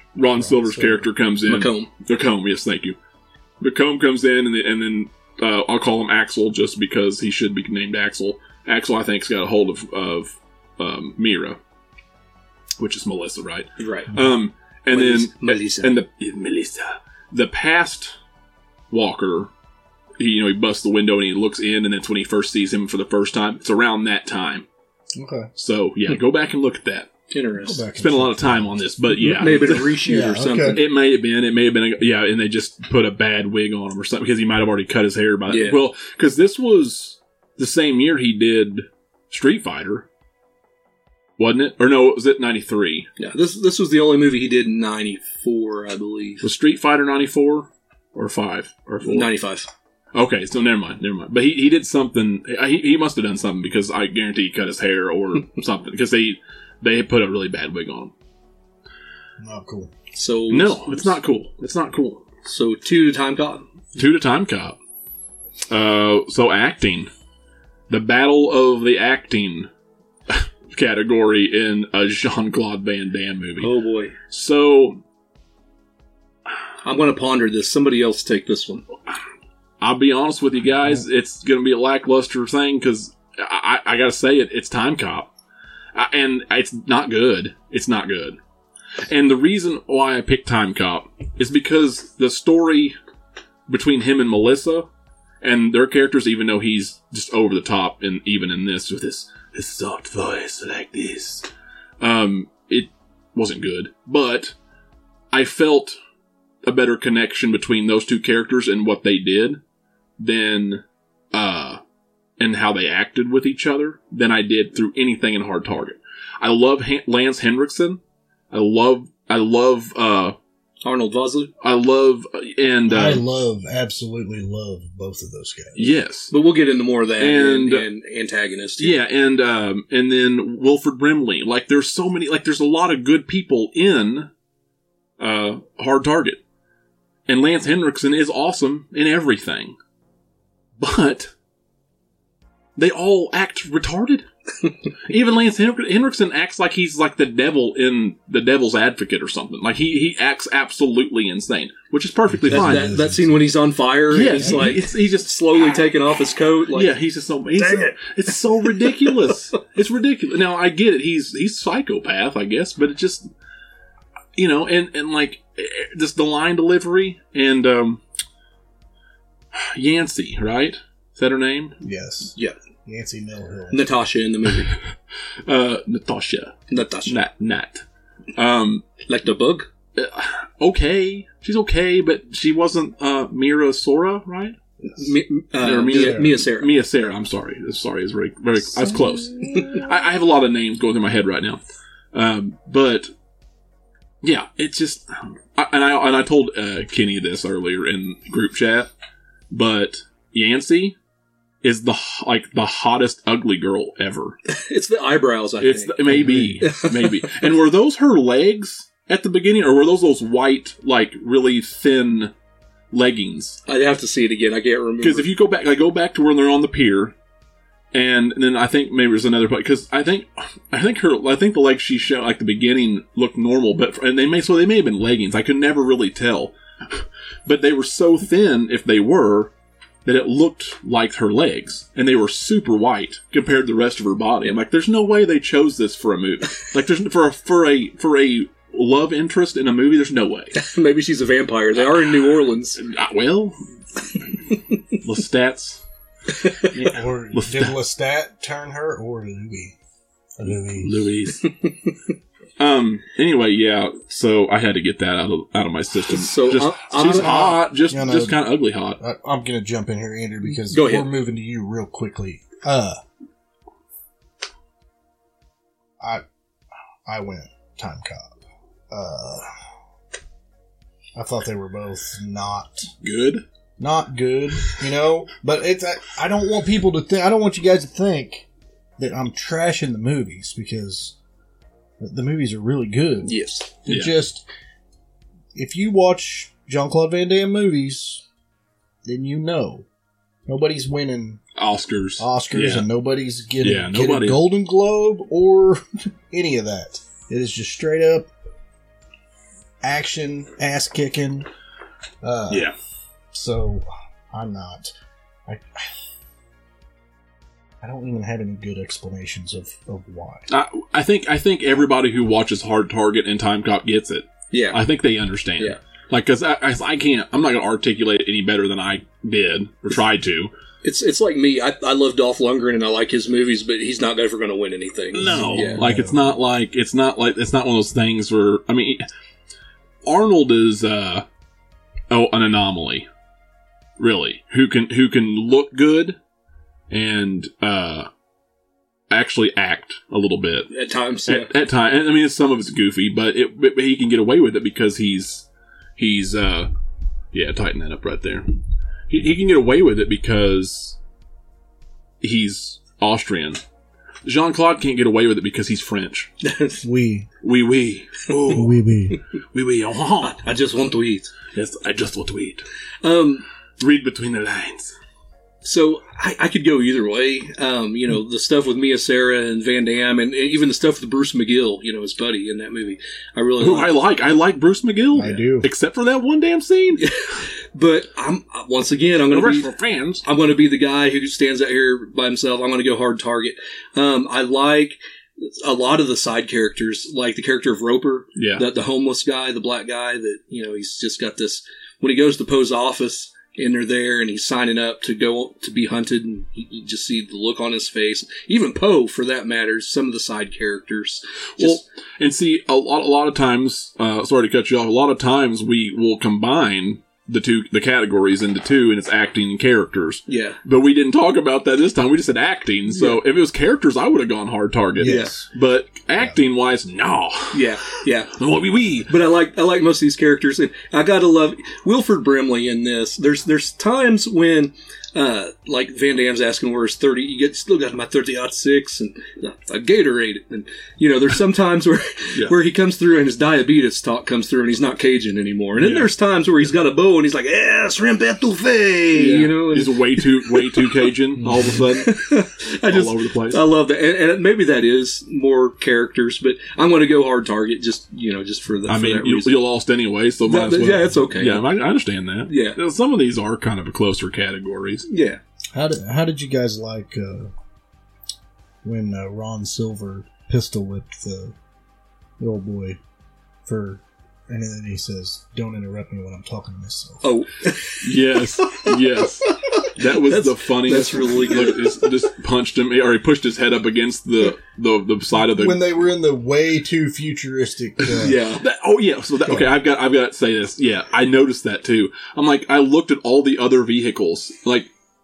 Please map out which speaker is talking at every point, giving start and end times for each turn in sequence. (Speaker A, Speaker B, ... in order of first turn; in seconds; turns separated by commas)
Speaker A: 0.1-3.0, Speaker B: 0.3-1.1, Speaker C: 1.4-1.9, Speaker A: 3.6-11.6, Speaker A: 12.8-18.1, Speaker C: 13.8-14.2, Speaker C: 14.9-15.9, Speaker A: 18.9-19.5, Speaker A: 20.2-24.6, Speaker B: 25.1-25.5, Speaker A: 25.6-27.1, Speaker C: 27.3-27.8, Speaker B: 27.6-30.8, Speaker A: 27.9-30.0, Speaker C: 29.4-30.8, Speaker A: 30.7-40.0, Speaker C: 35.5-35.8, Speaker A: 41.4-43.1, Speaker C: 43.2-46.4, Speaker A: 46.4-49.3, Speaker C: 49.0-49.7, Speaker A: 50.1-58.1, Speaker B: 59.4-59.9, Speaker C: 60.1-61.1, Speaker A: 60.5-62.2, Speaker C: 62.4-63.6, Speaker A: 64.0-64.8, Speaker A: 65.7-67.1, Speaker A: 67.9-69.7, Speaker A: 70.3-73.7, Speaker C: 73.6-74.1, Speaker A: 74.3-75.0, Speaker C: 76.8-78.8, Speaker A: 79.8-85.3, Speaker A: 85.9-88.4, Speaker A: 89.0-93.0, Speaker A: 93.7-94.9, Speaker A: 95.4-101.5, Speaker A: 102.0-104.5, Speaker A: 105.3-106.0, Speaker A: 106.6-109.6, Speaker A: 110.2-111.8, Speaker A: 112.4-118.0, Speaker A: 118.5-120.3, Speaker C: 120.8-121.5, Speaker A: 121.6-123.2, Speaker B: 122.9-125.9, Speaker A: 125.8-126.3, Speaker C: 126.3-128.9, Speaker A: 127.2-127.9, Speaker A: 128.8-134.3, Speaker A: 135.2-136.4, Speaker A: 137.3-139.8, Speaker A: 140.8-141.3, Speaker A: 142.8-144.2, Speaker A: 145.1-152.9, Speaker B: 152.3-153.5, Speaker C: 152.5-156.9, Speaker A: 154.1-155.7, Speaker B: 154.3-154.7, Speaker A: 156.7-163.3, Speaker C: 157.6-158.0, Speaker C: 158.9-159.3, Speaker A: 164.3-168.0, Speaker A: 169.5-171.8, Speaker B: 171.8-173.8, Speaker C: 173.7-174.8, Speaker A: 175.4-177.8, Speaker C: 176.7-177.2, Speaker A: 178.3-178.9, Speaker C: 179.1-179.7, Speaker A: 179.9-184.6, Speaker C: 184.8-186.7, Speaker A: 185.6-191.6, Speaker B: 185.9-186.3, Speaker A: 192.1-193.1, Speaker A: 194.2-198.9, Speaker A: 199.5-200.9, Speaker A: 201.6-204.4, Speaker C: 204.5-207.0, Speaker A: 205.6-212.3, Speaker B: 206.1-206.6, Speaker A: 212.9-213.6, Speaker C: 213.7-215.3, Speaker A: 215.0-217.1, Speaker A: 217.9-229.5, Speaker A: 230.0-240.5, Speaker C: 240.5-242.8, Speaker A: 241.8-243.6, Speaker A: 245.0-245.8, Speaker C: 246.4-246.7, Speaker A: 246.6-247.7, Speaker B: 246.8-249.8, Speaker B: 250.4-250.9, Speaker A: 250.7-251.5, Speaker A: 252.6-259.0, Speaker C: 256.1-257.5, Speaker B: 256.9-258.4, Speaker B: 259.0-263.0, Speaker C: 260.7-261.1, Speaker B: 267.1-268.4, Speaker B: 268.9-269.5, Speaker B: 271.1-272.9, Speaker A: 273.0-273.4, Speaker B: 273.8-278.5, Speaker B: 279.0-281.1, Speaker B: 282.0-284.4, Speaker C: 283.2-283.7, Speaker A: 283.9-284.1, Speaker B: 285.5-288.2, Speaker B: 289.0-289.9, Speaker B: 290.4-291.4, Speaker A: 291.6-292.9, Speaker B: 292.2-298.3, Speaker A: 293.6-294.4, Speaker B: 299.8-301.5, Speaker B: 302.2-302.7, Speaker A: 302.5-302.7, Speaker B: 303.3-304.9, Speaker B: 305.5-305.9, Speaker B: 307.8-310.4, Speaker A: 310.5-320.5, Speaker C: 314.5-314.8, Speaker C: 320.8-325.8, Speaker A: 325.1-329.0, Speaker B: 325.2-326.3, Speaker A: 330.0-331.2, Speaker A: 332.1-333.1, Speaker A: 334.0-336.2, Speaker A: 336.9-338.1, Speaker A: 339.1-340.7, Speaker C: 340.7-341.5, Speaker A: 341.3-345.4, Speaker A: 346.0-346.7, Speaker A: 347.3-348.6, Speaker A: 349.1-351.0, Speaker A: 352.2-353.6, Speaker A: 354.2-356.3, Speaker C: 356.4-356.8, Speaker B: 356.8-357.3, Speaker A: 357.4-358.8, Speaker B: 358.5-359.2, Speaker A: 359.5-360.4, Speaker C: 360.2-361.3, Speaker A: 361.5-362.6, Speaker C: 363.0-363.4, Speaker A: 363.8-364.9, Speaker C: 365.6-373.9, Speaker A: 373.6-377.1, Speaker B: 375.1-375.7, Speaker C: 377.0-379.7, Speaker A: 379.3-380.2, Speaker C: 380.2-401.8, Speaker A: 388.3-388.6, Speaker A: 401.6-417.7, Speaker C: 410.3-410.6, Speaker C: 412.9-413.2, Speaker B: 415.0-415.4, Speaker C: 415.0-415.4, Speaker C: 417.5-418.3, Speaker A: 418.3-419.1, Speaker C: 419.1-449.6, Speaker A: 435.8-436.1, Speaker A: 439.1-442.2, Speaker A: 442.9-443.6, Speaker A: 448.9-455.1, Speaker C: 450.4-451.7, Speaker C: 452.5-452.8, Speaker C: 455.1-455.4, Speaker B: 455.7-457.5, Speaker B: 458.8-461.6, Speaker B: 462.4-463.0, Speaker B: 463.6-467.2, Speaker C: 467.2-468.9, Speaker A: 468.0-475.8, Speaker C: 469.8-472.0, Speaker B: 475.5-478.4, Speaker C: 478.2-478.6, Speaker A: 478.6-484.9